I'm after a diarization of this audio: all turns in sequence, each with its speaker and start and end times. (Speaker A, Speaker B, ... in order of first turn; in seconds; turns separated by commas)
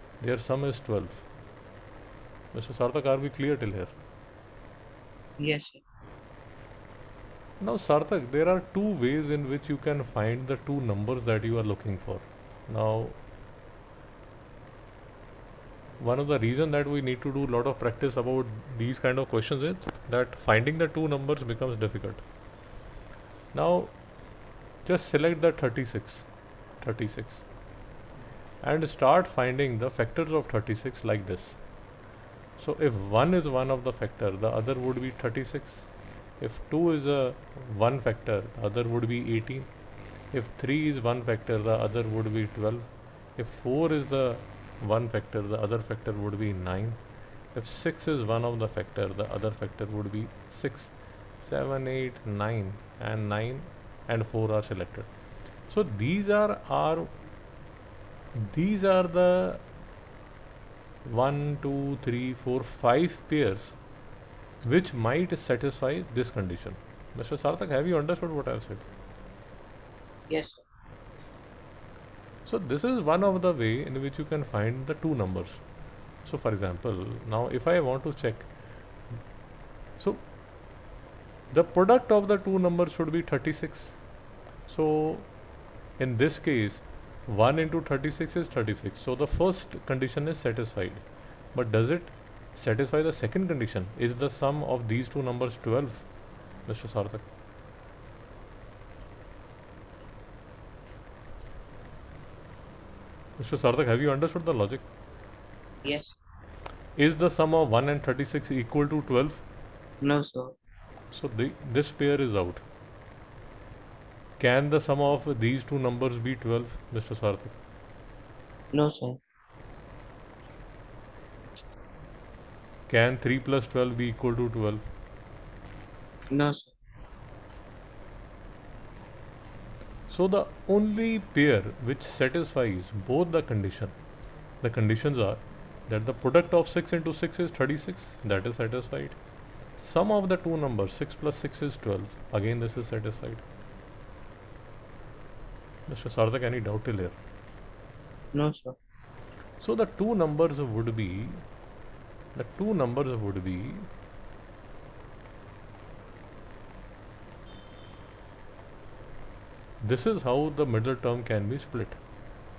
Speaker A: 0.2-1.3, Speaker A: 2.5-4.0, Speaker B: 5.4-5.8, Speaker A: 7.6-13.2, Speaker A: 16.0-22.2, Speaker A: 23.5-23.9, Speaker A: 24.9-26.3, Speaker A: 26.8-27.5, Speaker A: 28.6-31.6, Speaker A: 32.6-39.7, Speaker A: 40.3-47.0, Speaker A: 47.5-55.1, Speaker A: 55.7-57.1, Speaker A: 58.4-59.6, Speaker A: 61.1-63.8, Speaker A: 64.6-68.9, Speaker B: 70.3-70.6, Speaker A: 72.5-75.6, Speaker A: 76.2-78.5, Speaker A: 80.0-80.3, Speaker A: 81.5-84.0, Speaker A: 84.7-85.3, Speaker A: 86.0-96.1, Speaker A: 96.7-97.3, Speaker A: 103.4-104.9, Speaker B: 105.8-106.2, Speaker A: 107.0-109.4, Speaker B: 110.0-110.6, Speaker A: 111.1-112.6, Speaker A: 114.4-117.6, Speaker B: 118.7-119.2, Speaker A: 122.9-124.8, Speaker B: 126.3-126.7, Speaker A: 130.1-133.9, Speaker A: 134.6-139.2, Speaker A: 139.8-143.4, Speaker A: 145.9-147.2, Speaker B: 148.3-148.8, Speaker A: 149.6-151.4, Speaker A: 152.3-153.9, Speaker A: 159.8-162.0